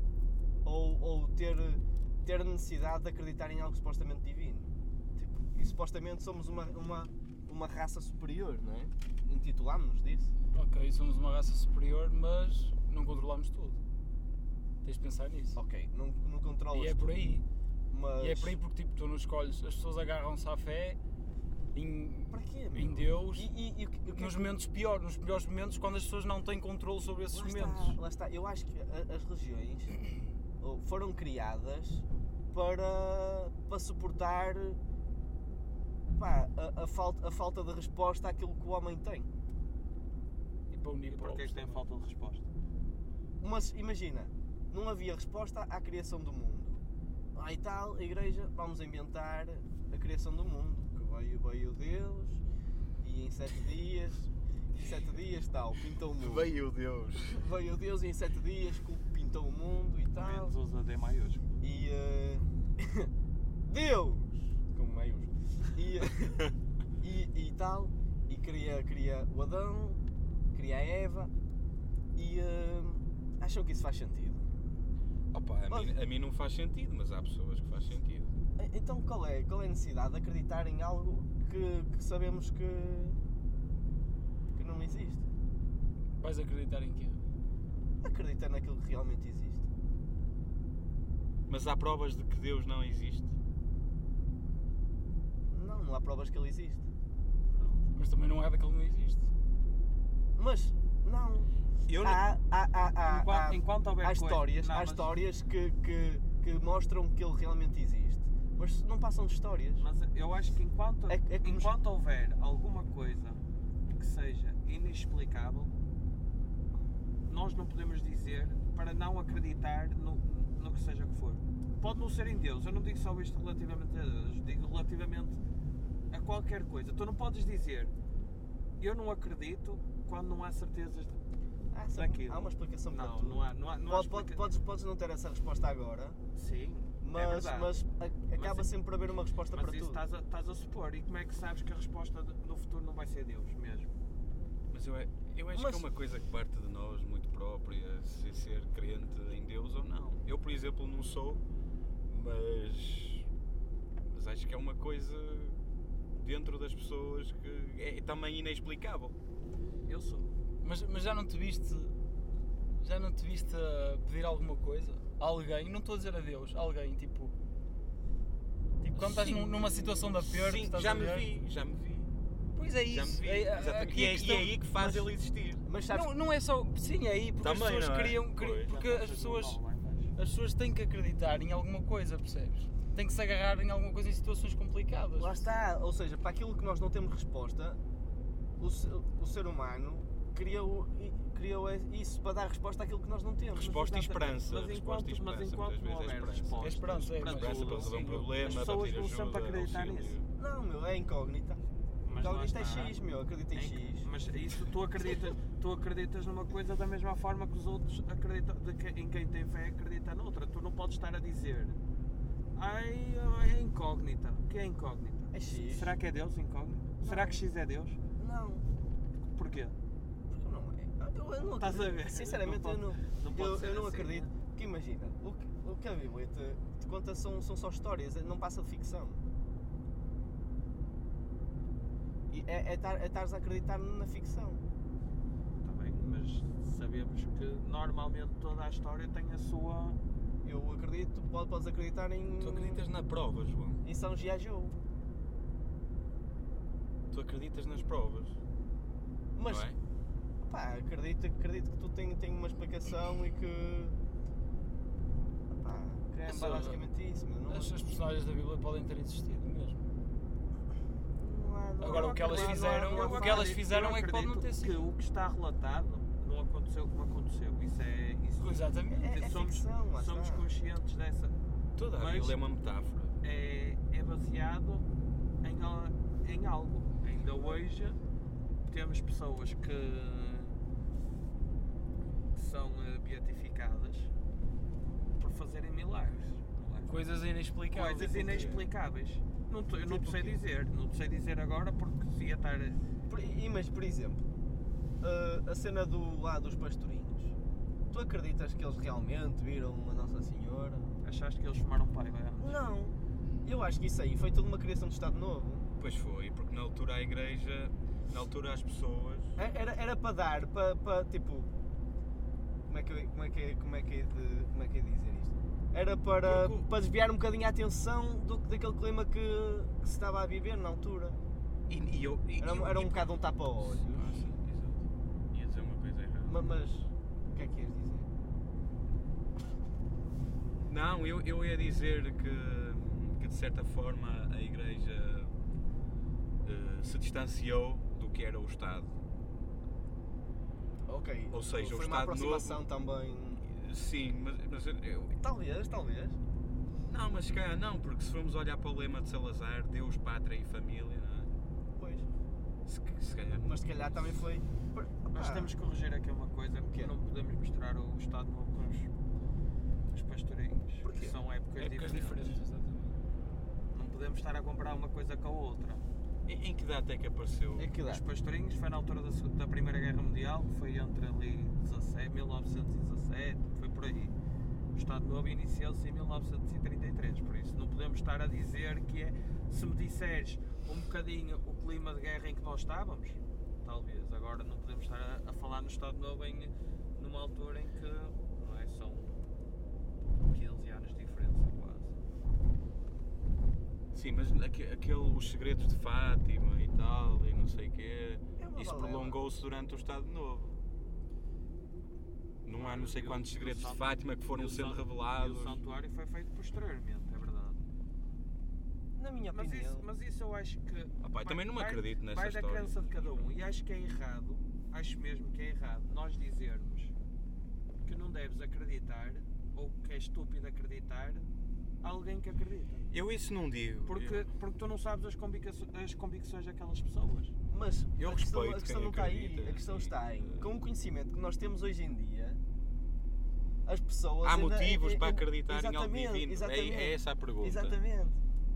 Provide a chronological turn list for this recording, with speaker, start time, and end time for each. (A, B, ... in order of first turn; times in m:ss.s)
0:00.6-0:10.3 A
0:10.5-0:13.8 B
0:14.8-0:15.6 B
0:15.6-0:17.3 A
0:16.7-0:17.4 B
0:17.9-0:18.6 A
0:18.2-0:21.0 B
0:21.7-0:23.5 B
0:22.3-0:24.5 A
0:24.1-0:28.0 B
0:27.3-0:30.0 A
0:30.6-0:34.8 A
0:36.1-0:39.3 A
0:40.7-0:41.8 B
0:41.1-0:42.5 C
0:43.4-0:46.8 A
0:47.4-0:52.4 A
0:53.0-0:56.6 A
0:56.2-0:57.4 D
0:57.3-1:00.6 A
1:00.1-1:01.5 C
1:01.6-1:03.1 A
1:03.7-1:06.5 A
1:07.0-1:11.3 A
1:12.1-1:14.6 A
1:15.3-1:18.3 D
1:15.7-1:15.9 A
1:18.6-1:23.2 A
1:24.5-1:25.2 A
1:26.2-1:27.2 B
1:28.0-1:29.6 A
1:31.5-1:33.3 D
1:35.5-1:36.8 A
1:37.5-1:37.8 C
1:37.9-1:39.3 B
1:40.4-1:49.9 A
1:41.9-1:42.2 D
1:43.1-1:45.2 C
1:49.8-1:55.7 C
1:51.1-1:51.7 A
1:57.2-2:05.4 C
2:06.1-2:07.9 C
2:08.8-2:11.2 C
2:11.7-2:16.2 A
2:11.9-2:14.4 C
2:16.3-2:17.8 C
2:17.0-2:20.0 A
2:18.3-2:18.7 C
2:19.5-2:23.9 C
2:24.7-2:31.4 D
2:25.5-2:25.9 A
2:32.1-2:33.3 D
2:34.1-2:35.6 D
2:36.2-2:39.2 D
2:39.8-2:40.3 C
2:40.6-2:42.0 B
2:42.8-2:47.3 B
2:48.9-2:51.3 B
2:49.0-2:52.1 D
2:49.0-2:49.8 A
2:52.6-2:55.0 B
2:52.9-2:55.6 D
2:55.6-2:56.1 A
2:55.9-2:59.6 B
2:57.4-2:58.7 D
2:58.6-3:00.1 C
3:00.2-3:05.5 B
3:05.2-3:07.8 A
3:08.6-3:13.8 A
3:13.6-3:20.3 D
3:13.6-3:20.2 C
3:16.6-3:18.7 B
3:20.4-3:21.6 A
3:22.0-3:23.0 C
3:22.2-3:24.1 A
3:23.5-3:31.8 C
3:32.6-3:38.0 C
3:35.3-3:36.0 A
3:37.0-3:37.4 A
3:38.2-3:38.7 A
3:39.2-3:39.8 C
3:40.3-3:49.2 A
3:41.4-3:44.3 C
3:52.3-3:54.7 A
3:55.6-4:00.0 C
4:00.4-4:02.9 A
4:02.4-4:03.8 D
4:03.8-4:04.8 A
4:07.1-4:08.4 D
4:09.3-4:09.7 A
4:09.4-4:09.8 D
4:10.4-4:14.0 A
4:15.5-4:17.9 A
4:16.2-4:16.8 B
4:17.5-4:19.8 B
4:21.2-4:23.6 A
4:21.8-4:24.8 B
4:21.8-4:31.4 C
4:28.4-4:29.2 B
4:28.9-4:30.5 A
4:31.8-4:33.2 D
4:31.9-4:32.4 C
4:33.2-4:34.9 C
4:35.4-4:38.0 C
4:38.7-4:40.6 C
4:42.3-4:44.1 C
4:45.2-4:47.0 C
4:46.8-4:48.6 B
4:47.7-4:52.8 C
4:48.2-4:48.6 A
4:49.8-4:50.4 A
4:53.1-4:54.2 A
4:55.0-4:57.3 A
4:57.9-5:01.0 A
5:01.0-5:02.6 C
5:02.4-5:05.7 A
5:05.8-5:09.3 D
5:09.4-5:11.5 A
5:12.7-5:21.2 A
5:16.2-5:16.7 D
5:21.7-5:26.4 D
5:22.4-5:24.2 A
5:26.2-5:28.1 A
5:30.6-5:35.3 D
5:36.4-5:38.9 D
5:40.9-5:43.4 A
5:41.3-5:42.6 D
5:43.4-5:45.2 D
5:45.2-5:46.2 A
5:46.8-5:51.3 D
5:51.8-5:52.1 A
5:52.7-5:53.9 D
5:53.4-5:55.6 A
5:55.1-5:58.9 C
5:56.6-5:56.9 A
5:59.9-6:02.4 C
6:00.8-6:01.2 A
6:01.6-6:03.0 B
6:03.7-6:05.8 C
6:06.3-6:07.7 D
6:07.6-6:08.0 A
6:07.8-6:14.1 C
6:14.8-6:29.2 C
6:30.3-6:32.0 C
6:33.9-6:40.6 D
6:38.4-6:39.2 A
6:42.4-6:45.6 D
6:42.5-6:47.6 C
6:48.9-6:49.9 A
6:49.3-6:56.9 C
6:51.0-6:53.3 D
6:57.8-7:01.3 C
7:01.8-7:02.9 C
7:02.9-7:04.3 D
7:03.8-7:07.3 C
7:07.5-7:12.4 A
7:08.0-7:10.5 D
7:13.6-7:18.2 A
7:14.2-7:17.8 D